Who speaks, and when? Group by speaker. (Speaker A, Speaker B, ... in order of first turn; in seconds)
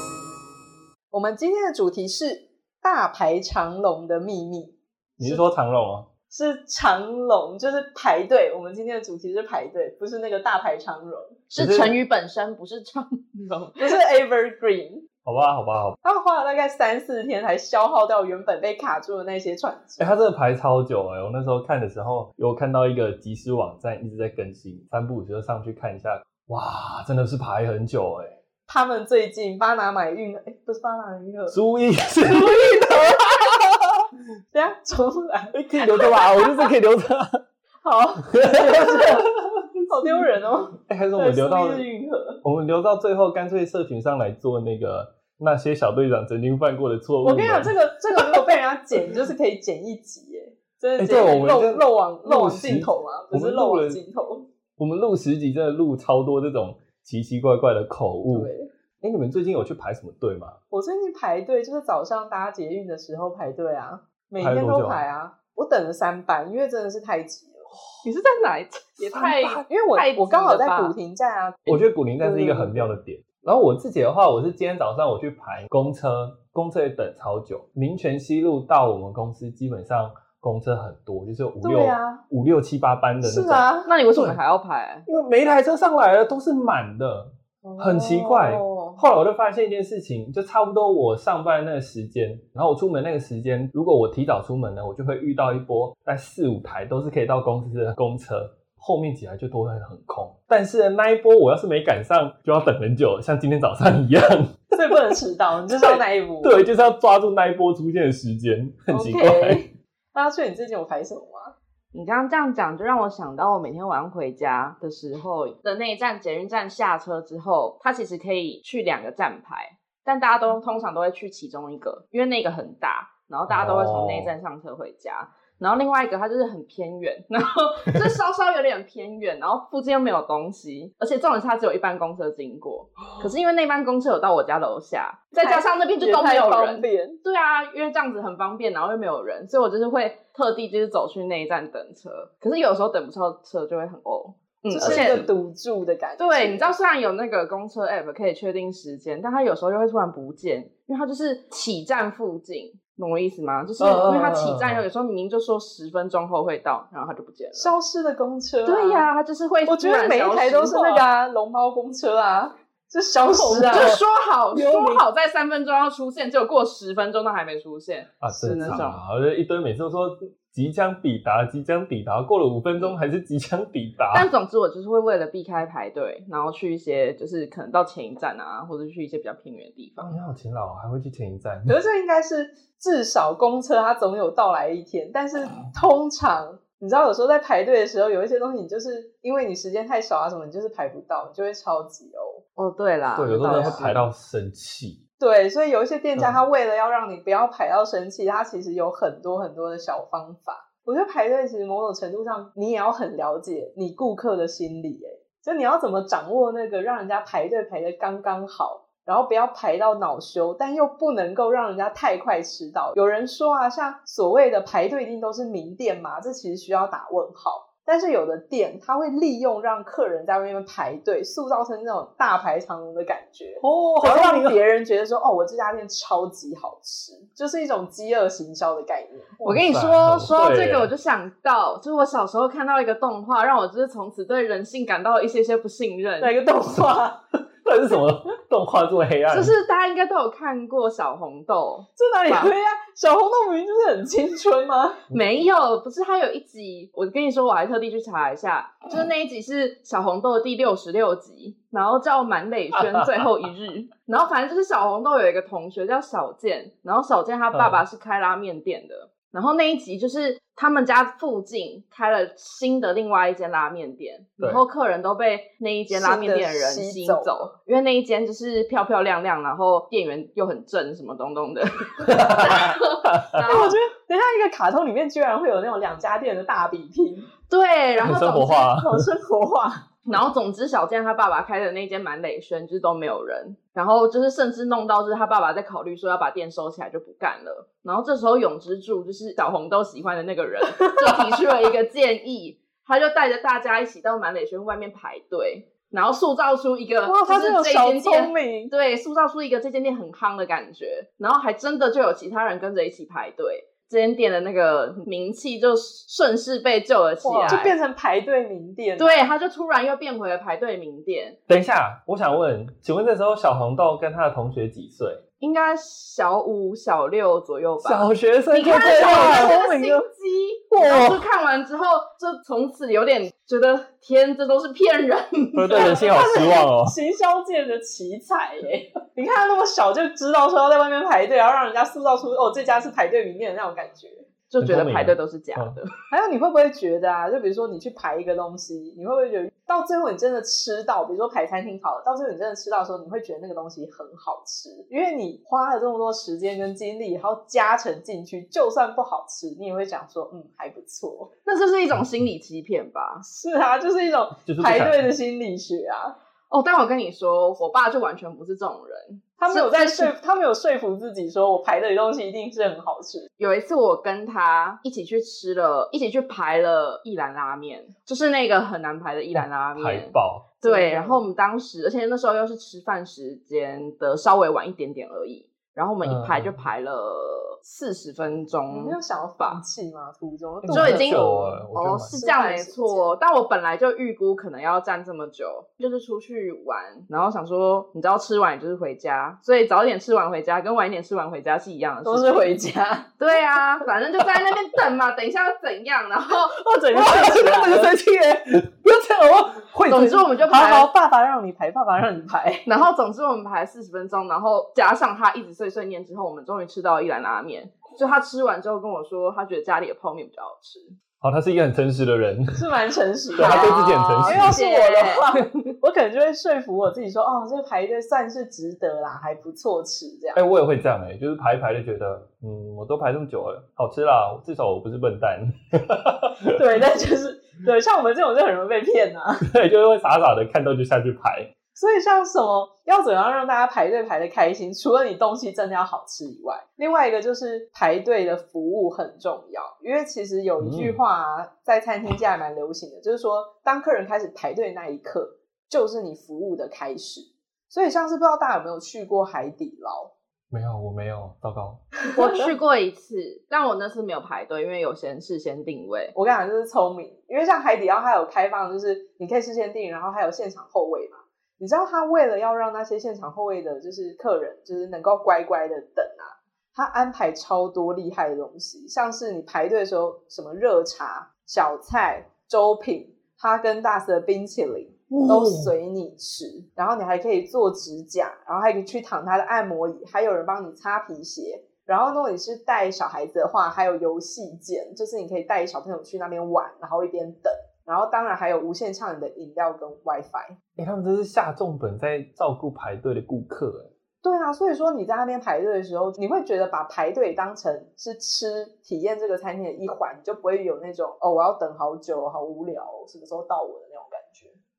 Speaker A: 1.1-5.4, 6.3-11.4, 13.8-15.1, 16.0-20.1, 28.7-31.6, 32.4-33.2, 34.5-36.7, 37.8-39.3, 39.9-42.4, 47.2-54.5, 58.3-58.7, 60.7-67.7, 69.7-73.0, 81.6-82.2, 83.2-84.0, 87.6-89.0, 104.7-106.6, 109.0-109.5, 110.1-111.5, 135.4-137.2, 144.7-146.7, 157.6-159.1, 159.7-163.9, 168.4-168.8, 181.7-192.4, 193.4-194.0, 195.2-229.6, 236.2-237.2, 242.0-245.0, 265.9-267.5, 273.5-277.3, 278.7-279.8, 297.0-298.7, 307.2-309.3, 318.8-319.6, 325.7-334.3, 336.1-351.3, 353.2-356.2, 359.4-363.3, 370.6-371.2, 378.7-381.2, 382.1-383.1, 392.1-393.2, 396.6-397.9, 400.5-402.7, 412.6-420.4, 426.5-429.5, 431.8-450.1, 456.1-490.5, 494.2-504.6
Speaker B: 5.2-6.1, 11.6-12.0, 15.2-16.0, 20.0-28.4, 31.5-34.0, 35.5-37.4, 38.3-40.2, 40.9-41.9, 42.4-48.4, 51.0-54.0, 54.8-60.6, 64.4-65.0, 69.0-69.6, 71.7-84.4, 85.1-105.2, 105.7-109.6, 123.5-124.3, 144.8-145.3, 153.8-154.8, 163.6-164.0, 164.5-165.0, 168.2-174.3, 180.0-181.8, 193.1-195.0, 196.2-196.4, 223.6-224.6, 229.6-230.9, 237.6-239.5, 252.7-253.2, 257.5-257.8, 272.0-273.5, 278.0-279.1, 311.5-315.2, 317.8-320.1, 320.7-321.2, 325.6-327.0, 334.6-335.8, 354.5-355.1, 369.4-370.5, 376.0-376.6, 380.6-382.1, 396.9-400.3, 411.2-412.6, 413.4-414.6, 420.3-426.6, 429.4-431.5, 440.6-441.0, 450.5-451.8, 475.1-475.7, 490.8-493.9
Speaker C: 11.5-14.0, 68.0-70.9, 83.9-85.1, 108.9-109.6, 111.9-145.3, 146.2-157.7, 158.7-161.1, 163.4-169.0, 174.1-180.2, 192.6-194.1, 229.4-236.3, 239.3-242.5, 245.1-273.8, 277.5-278.7, 280.1-307.7, 309.0-311.4, 315.4-326.4, 334.5-335.9, 351.5-353.2, 356.5-360.1, 363.4-379.6, 380.7-392.5, 393.2-396.5, 399.9-400.9, 402.7-410.9, 413.4-415.4, 452.1-456.1